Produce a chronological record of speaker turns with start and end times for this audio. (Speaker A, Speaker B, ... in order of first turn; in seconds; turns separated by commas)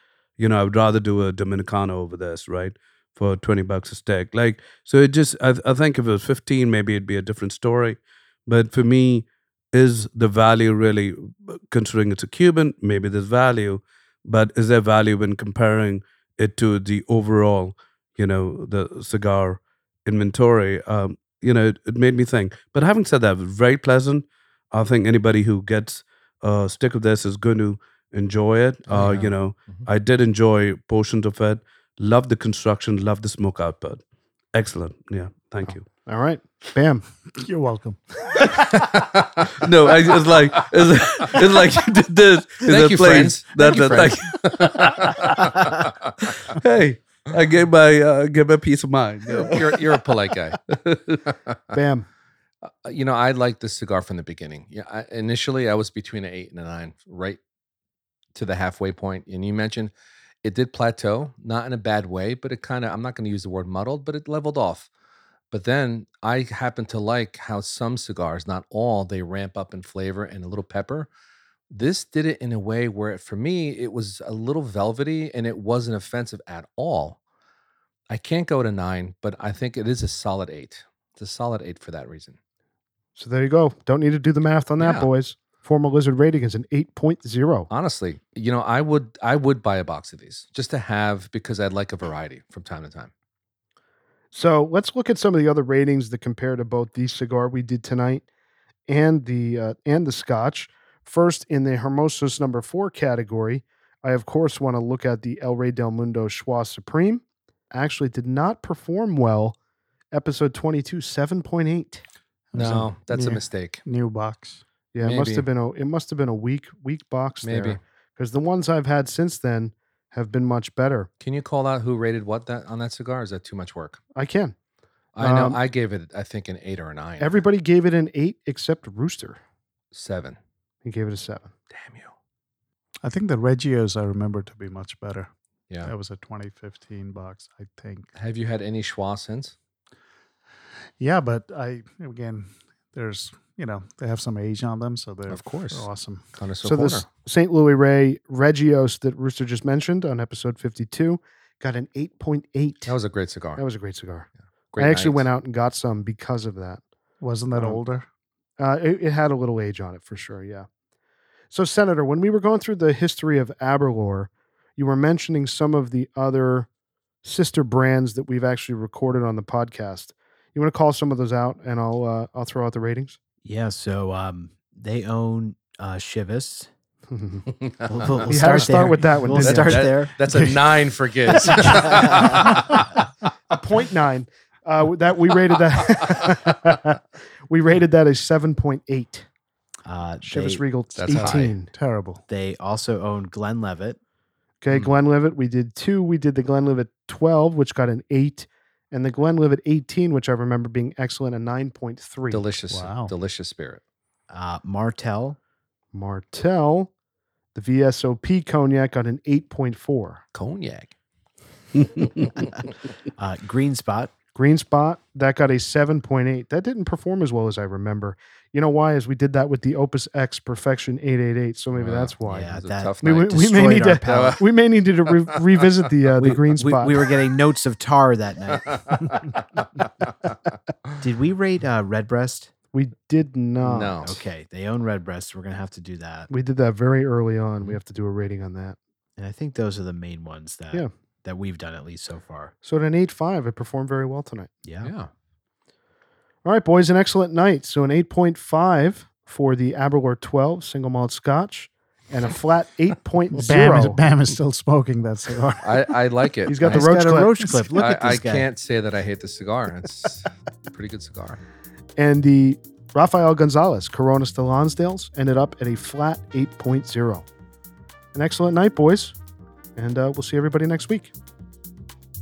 Speaker A: 0.4-34.0, Speaker B: 28.9-29.9, Speaker A: 34.5-35.8, Speaker C: 35.6-37.0, Speaker D: 37.3-38.6, Speaker A: 39.6-49.9, Speaker B: 42.6-45.9, Speaker B: 49.3-50.6, Speaker A: 50.7-51.2, Speaker B: 51.3-51.7, Speaker C: 51.7-52.1, Speaker B: 52.7-57.4, Speaker B: 58.4-59.9, Speaker B: 60.4-64.9, Speaker B: 65.5-71.1, Speaker B: 71.7-77.2, Speaker B: 78.1-82.4, Speaker C: 83.2-87.7, Speaker B: 84.8-85.1, Speaker B: 87.7-93.1, Speaker C: 94.3-98.2, Speaker C: 98.9-109.6, Speaker C: 110.1-112.0, Speaker D: 112.5-114.6, Speaker B: 112.5-113.8, Speaker C: 114.9-121.1, Speaker B: 115.0-115.5, Speaker B: 117.4-117.8, Speaker B: 121.2-124.0, Speaker C: 124.2-124.5, Speaker B: 125.2-127.4, Speaker C: 125.2-125.6, Speaker C: 127.2-129.4, Speaker B: 129.9-130.4, Speaker C: 130.8-131.5, Speaker B: 131.7-132.1, Speaker D: 133.0-135.3, Speaker D: 135.8-138.1, Speaker B: 138.2-139.5, Speaker D: 141.0-146.2, Speaker B: 145.3-147.1, Speaker C: 146.6-152.9, Speaker B: 152.9-153.6, Speaker C: 153.6-156.8, Speaker B: 154.7-155.3, Speaker D: 157.2-158.1, Speaker C: 157.5-157.8, Speaker C: 158.6-160.7, Speaker C: 161.5-166.7, Speaker C: 167.2-173.2, Speaker E: 173.4-176.7, Speaker C: 177.1-177.5, Speaker B: 177.6-178.7, Speaker E: 177.9-180.1, Speaker C: 178.2-179.9, Speaker B: 179.4-183.0, Speaker D: 180.3-180.6, Speaker D: 181.3-182.8, Speaker E: 181.6-182.6, Speaker C: 183.5-189.3, Speaker E: 189.9-190.6, Speaker C: 190.2-191.7, Speaker B: 191.0-191.6, Speaker D: 191.2-192.2, Speaker E: 192.3-194.0, Speaker C: 194.6-202.4, Speaker B: 202.3-203.8, Speaker D: 202.7-203.1, Speaker E: 204.3-205.4, Speaker C: 205.9-206.9, Speaker C: 207.6-210.2, Speaker B: 210.3-210.9, Speaker B: 212.0-212.5, Speaker E: 213.2-214.1, Speaker C: 214.3-226.9, Speaker B: 221.8-224.4, Speaker E: 222.3-224.4, Speaker E: 226.2-229.2, Speaker B: 228.5-229.8, Speaker E: 231.0-232.5, Speaker C: 232.7-234.0, Speaker B: 233.6-234.3, Speaker E: 234.0-236.3, Speaker C: 236.3-238.8, Speaker E: 239.2-242.5, Speaker C: 242.6-244.5, Speaker E: 244.7-244.9, Speaker B: 244.8-245.1, Speaker C: 246.4-254.0, Speaker D: 253.3-255.9, Speaker B: 255.6-256.9, Speaker C: 256.5-257.5, Speaker E: 256.6-258.5, Speaker B: 257.7-261.4, Speaker C: 262.0-267.2, Speaker C: 268.1-269.1, Speaker C: 269.8-271.1